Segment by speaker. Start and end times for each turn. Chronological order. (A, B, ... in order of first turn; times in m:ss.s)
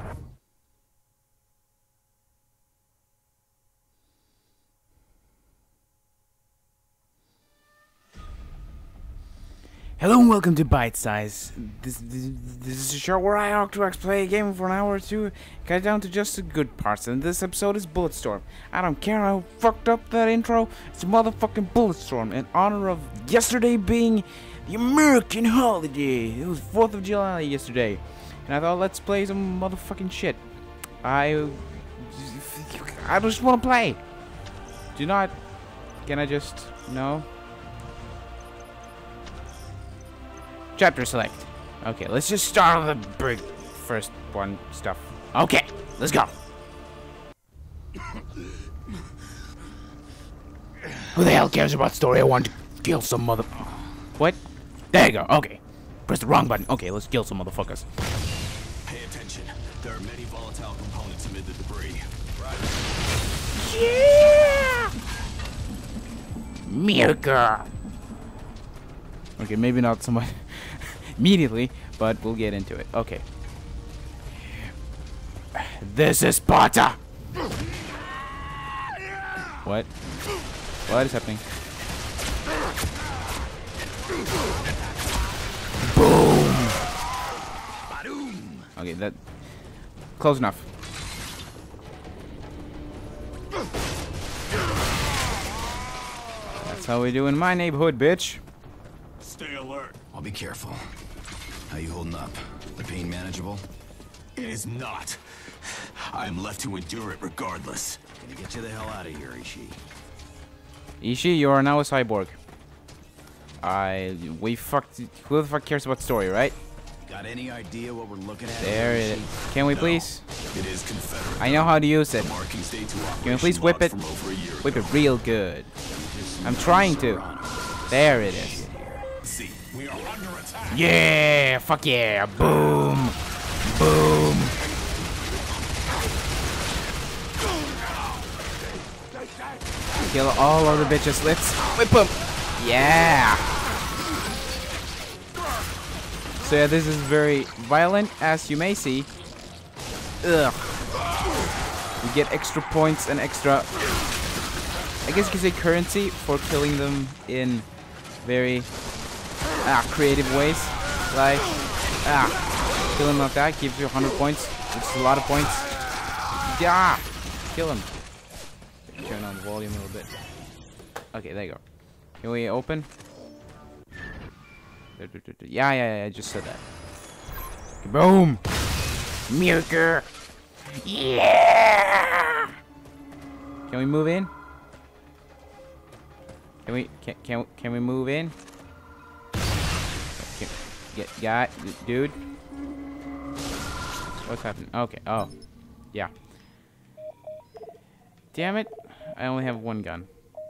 0:10.0-0:30.4 A
0:31.0-0:34.0 A
0:34.9-0:35.3 A
0:36.0-0:37.2 A
0:40.8-0:46.3 A
0:51.1-0:53.6 A
0:54.9-0:57.8 A
0:58.8-1:02.1 B
1:02.3-1:02.7 C
1:03.6-1:04.9 A
1:06.6-1:07.7 A
1:09.4-1:13.2 A
1:15.5-1:17.0 A
1:19.6-1:19.9 A
1:20.8-1:21.4 A
1:25.8-1:26.8 A
1:27.8-1:28.7 C
1:28.8-1:29.2 A
1:30.2-1:30.7 A
1:36.6-1:38.4 A
1:39.2-1:40.0 B
1:40.1-1:40.9 C
1:41.7-1:43.6 C
1:44.4-1:48.0 B
1:48.2-1:49.8 C
1:51.0-1:52.4 A
1:53.6-1:56.6 A
1:57.0-1:59.4 C
1:58.6-2:00.2 A
1:59.7-2:05.1 B
2:01.4-2:02.3 A
2:03.2-2:04.0 A
2:04.6-2:05.7 A
2:05.9-2:09.1 C
2:06.4-2:07.2 A
2:07.9-2:08.7 A
2:09.2-2:10.9 B
2:10.7-2:14.6 A
2:19.9-2:23.4 A
2:26.4-2:29.1 A
2:30.2-2:30.9 A
2:32.0-2:33.7 A
2:35.0-2:37.6 A
2:38.2-2:38.7 A
2:39.6-2:41.5 A
2:42.0-2:42.4 A
2:42.9-2:45.7 A
2:46.5-2:47.9 A
2:48.9-2:50.1 A
2:51.1-2:51.6 A
2:52.2-2:52.9 A
2:55.0-2:56.6 A
2:57.8-2:58.4 A
2:59.3-3:00.1 A
3:00.7-3:02.5 A
3:03.7-3:04.3 A
3:06.6-3:08.3 A
3:10.2-3:12.2 A
3:14.2-3:15.3 A
3:18.3-3:20.1 A